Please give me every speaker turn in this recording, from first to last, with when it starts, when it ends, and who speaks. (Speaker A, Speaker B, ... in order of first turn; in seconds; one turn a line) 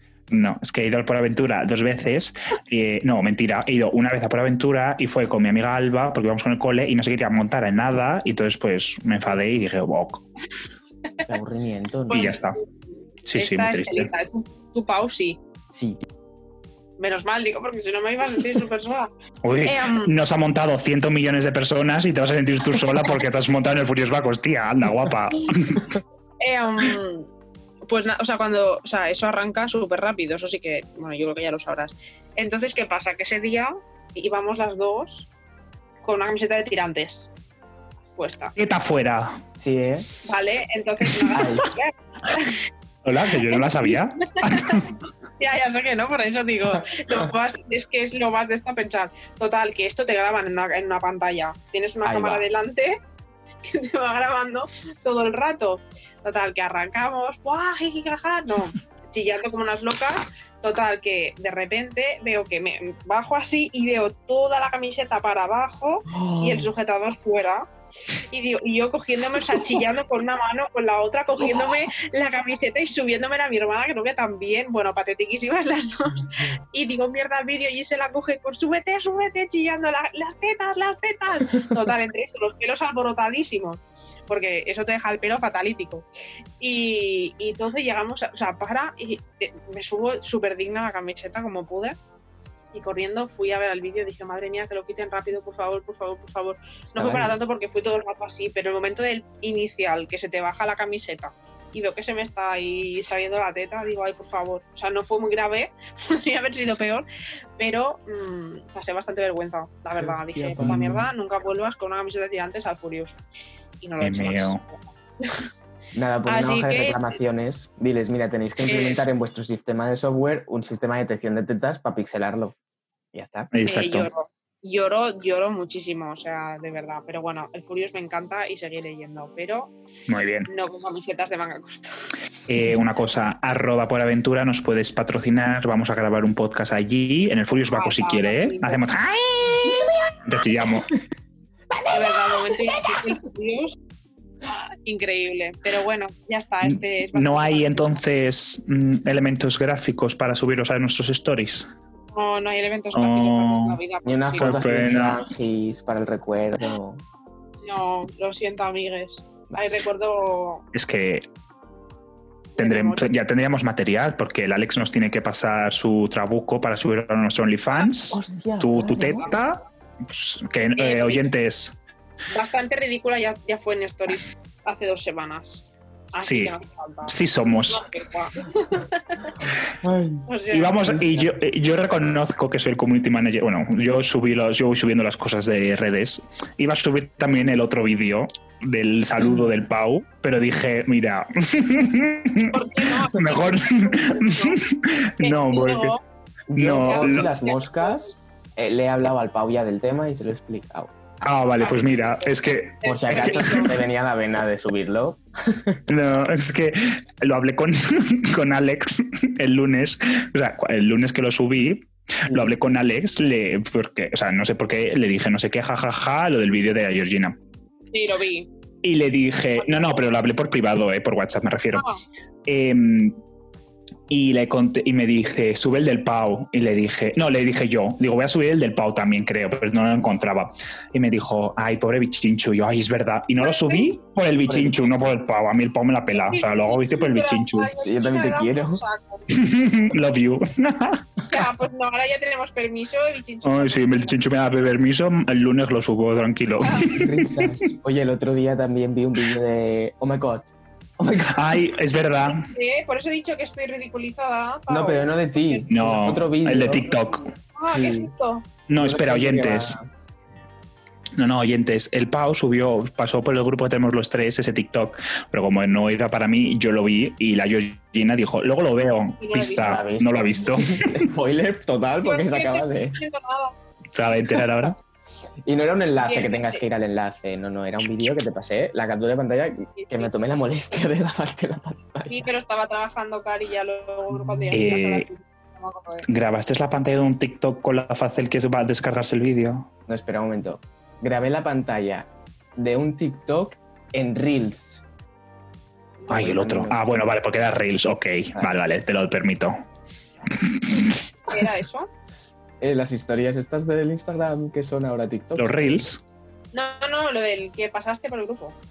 Speaker A: 0.3-10.2
Speaker B: 11.3-12.4
Speaker C: 12.1-12.5
Speaker A: 12.1-12.6
Speaker A: 13.2-14.1
Speaker C: 13.3-15.4
Speaker B: 15.7-16.1
Speaker C: 17.0-19.1
Speaker A: 19.4-25.9
Speaker C: 19.6-20.1
Speaker C: 26.4-27.3
Speaker C: 27.9-35.3
Speaker C: 36.0-37.3
Speaker C: 38.1-38.5
Speaker A: 38.6-39.4
Speaker B: 39.6-40.1
Speaker C: 40.2-42.6
Speaker B: 41.3-41.7
Speaker A: 43.0-44.9
Speaker C: 43.5-44.8
Speaker C: 45.4-53.0
Speaker B: 52.0-52.5
Speaker C: 53.6-67.7
Speaker B: 66.1-66.7
Speaker C: 68.3-86.0
Speaker C: 86.6-92.0
Speaker C: 92.7-107.1
Speaker B: 97.0-97.4
Speaker C: 107.6-113.2
Speaker B: 110.0-111.1
Speaker A: 110.6-110.9
Speaker C: 113.8-115.5
Speaker A: 114.0-114.6
Speaker B: 115.9-122.5
Speaker C: 116.3-117.1
Speaker C: 118.7-119.0
Speaker B: 123.1-123.5
Speaker A: 123.5-124.1
Speaker C: 123.7-129.8
Speaker A: 130.1-130.5
Speaker C: 130.5-132.0
Speaker A: 132.5-140.9
Speaker C: 137.7-138.8
Speaker B: 141.8-142.6
Speaker C: 141.9-143.8
Speaker C: 144.5-147.9
Speaker A: 146.6-151.7
Speaker C: 152.1-154.5
Speaker A: 152.9-153.8
Speaker B: 154.1-157.0
Speaker A: 154.4-155.3
Speaker C: 157.6-160.6
Speaker A: 160.7-161.2
Speaker C: 162.6-163.1
Speaker A: 162.6-171.8
Speaker B: 168.1-169.3
Speaker C: 170.8-171.3
Speaker C: 172.3-177.2
Speaker A: 176.2-176.5
Speaker A: 177.1-177.8
Speaker C: 177.7-179.4
Speaker B: 179.8-180.3
Speaker C: 180.3-180.9
Speaker A: 180.5-195.9
Speaker B: 180.8-181.3
Speaker C: 192.5-194.6
Speaker C: 195.2-196.0
Speaker B: 196.5-201.0
Speaker A: 196.6-197.3
Speaker C: 196.7-198.1
Speaker A: 201.2-203.7
Speaker C: 201.6-203.8
Speaker B: 202.8-205.8
Speaker A: 205.9-217.4
Speaker C: 217.9-218.5
Speaker A: 218.8-221.9
Speaker C: 219.6-219.9
Speaker C: 221.7-222.0
Speaker A: 222.5-223.2
Speaker A: 224.1-237.7
Speaker C: 233.4-233.9
Speaker B: 234.5-234.8
Speaker C: 236.1-239.3
Speaker B: 237.8-238.8
Speaker A: 239.3-241.1
Speaker C: 241.3-244.1
Speaker A: 243.4-247.5
Speaker B: 246.8-250.5
Speaker B: 251.0-251.6
Speaker A: 251.3-252.5
Speaker C: 252.1-255.6
Speaker B: 254.7-256.9
Speaker A: 255.7-257.3
Speaker C: 257.6-258.5
Speaker B: 257.6-258.1
Speaker A: 258.7-259.8
Speaker B: 258.8-259.9
Speaker A: 261.2-271.1
Speaker C: 269.2-269.8
Speaker B: 269.6-273.0
Speaker C: 272.0-273.6
Speaker A: 273.9-274.8
Speaker B: 275.4-282.2
Speaker C: 276.0-276.6
Speaker C: 279.8-280.1
Speaker C: 282.1-286.1
Speaker A: 284.5-285.1
Speaker A: 286.1-289.7
Speaker B: 289.9-294.8
Speaker B: 296.1-296.8
Speaker A: 296.1-299.6
Speaker A: 300.4-301.0
Speaker C: 301.3-301.9
Speaker B: 302.6-305.9
Speaker A: 305.4-306.0
Speaker C: 306.5-308.6